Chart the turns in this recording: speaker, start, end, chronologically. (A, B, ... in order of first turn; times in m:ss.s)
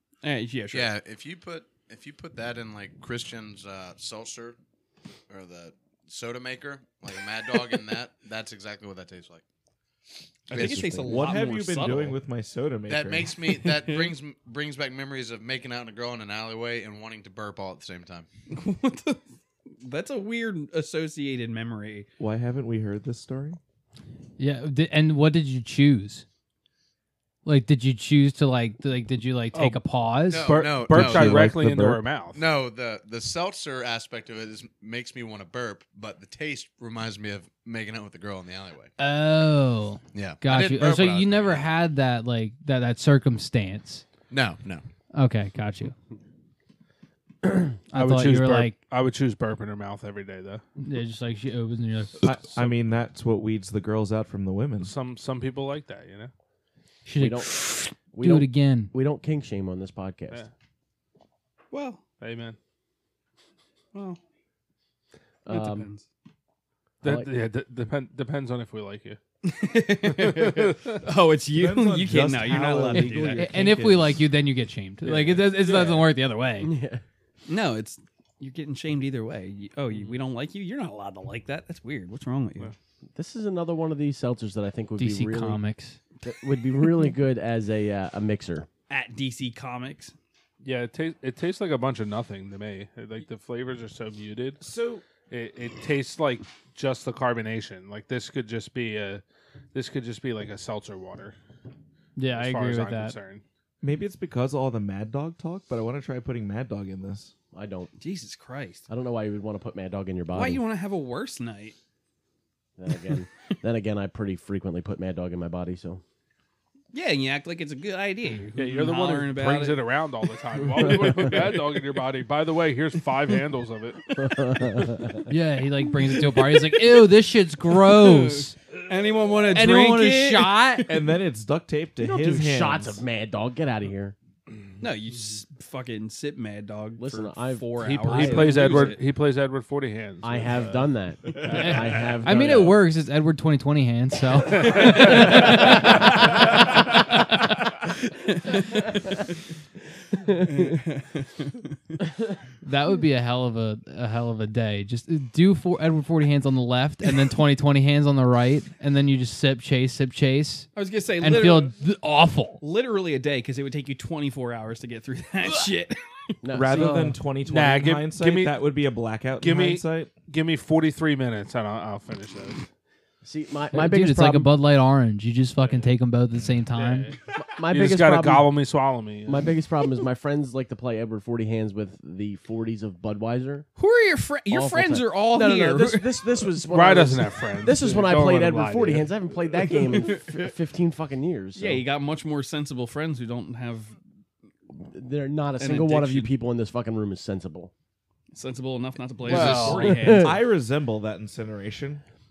0:00.2-0:00.9 A
0:00.7-0:04.6 B
0:05.3-0:09.4 B
0:10.5-0:12.2 A
0:10.5-0:11.2 C
0:11.0-0:13.3 D
0:12.9-0:18.3 B
0:13.4-0:14.1 A
0:18.5-0:19.2 A
0:19.8-0:22.1 A
0:22.2-0:23.6 D
0:24.4-0:26.2 E
0:27.4-0:30.5 E
0:29.5-0:29.8 F
0:30.3-0:31.6 B
0:30.4-0:32.4 F
0:30.6-0:32.0 D
0:32.3-0:38.9 B
0:39.0-0:44.0 E
0:40.1-0:41.7 B
0:44.3-0:44.8 B
0:45.1-0:45.9 E
0:47.9-0:48.8 E
0:47.9-0:50.6 F
0:50.8-0:52.2 E
0:52.2-0:55.0 D
0:54.8-0:56.3 F
0:57.0-0:58.9 E
0:57.2-1:00.4 C
1:01.7-1:02.0 A
1:02.2-1:02.6 F
1:03.9-1:04.2 A
1:05.4-1:05.9 C
1:05.5-1:06.0 A
1:07.0-1:09.2 F
1:09.4-1:13.5 A
1:10.1-1:11.0 F
1:11.5-1:14.2 D
1:13.3-1:16.7 E
1:15.0-1:16.0 F
1:16.6-1:17.0 C
1:17.5-1:22.7 A
1:23.1-1:25.6 C
1:25.0-1:26.0 E
1:26.2-1:28.7 C
1:28.9-1:30.1 A
1:30.6-1:34.6 F
1:34.6-1:35.0 D
1:35.2-1:41.4 F
1:42.2-1:43.2 E
1:42.3-1:43.4 F
1:43.8-1:47.3 D
1:47.5-1:47.9 C
1:48.0-1:48.8 A
1:48.9-1:50.6 C
1:50.3-1:51.8 A
1:52.8-1:56.0 C
1:56.9-1:59.9 A
1:58.6-2:04.0 F
2:00.8-2:01.5 A
2:04.2-2:05.3 C
2:05.3-2:08.6 E
2:06.0-2:07.1 A
2:07.6-2:11.2 A
2:09.5-2:10.9 E
2:10.9-2:13.0 D
2:12.0-2:14.1 C
2:14.8-2:19.0 A
2:17.0-2:18.7 C
2:17.8-2:20.9 F
2:20.2-2:22.8 C
2:21.4-2:22.7 F
2:21.5-2:26.0 E
2:24.5-2:25.5 F
2:24.9-2:25.2 A
2:25.0-2:26.2 C
2:28.0-2:29.3 A
2:30.1-2:30.8 C
2:30.4-2:32.0 A
2:32.6-2:42.6 E
2:40.8-2:41.7 A
2:42.6-2:46.4 A
2:46.4-2:47.0 C
2:46.5-2:50.1 D
2:46.7-2:47.2 E
2:47.4-2:48.6 F
2:49.4-2:52.7 F
2:53.2-2:54.5 C
2:53.7-2:57.1 E
2:55.6-2:55.9 F
2:56.7-2:59.5 F
2:57.4-2:58.5 C
2:59.3-3:03.6 C
3:03.8-3:06.3 A
3:04.5-3:11.8 C
3:06.7-3:09.1 F
3:09.8-3:10.5 A
3:11.5-3:14.0 A
3:14.7-3:17.7 C
3:15.6-3:16.3 A
3:18.3-3:20.4 A
3:19.3-3:20.4 C
3:19.3-3:19.9 F
3:19.3-3:22.0 D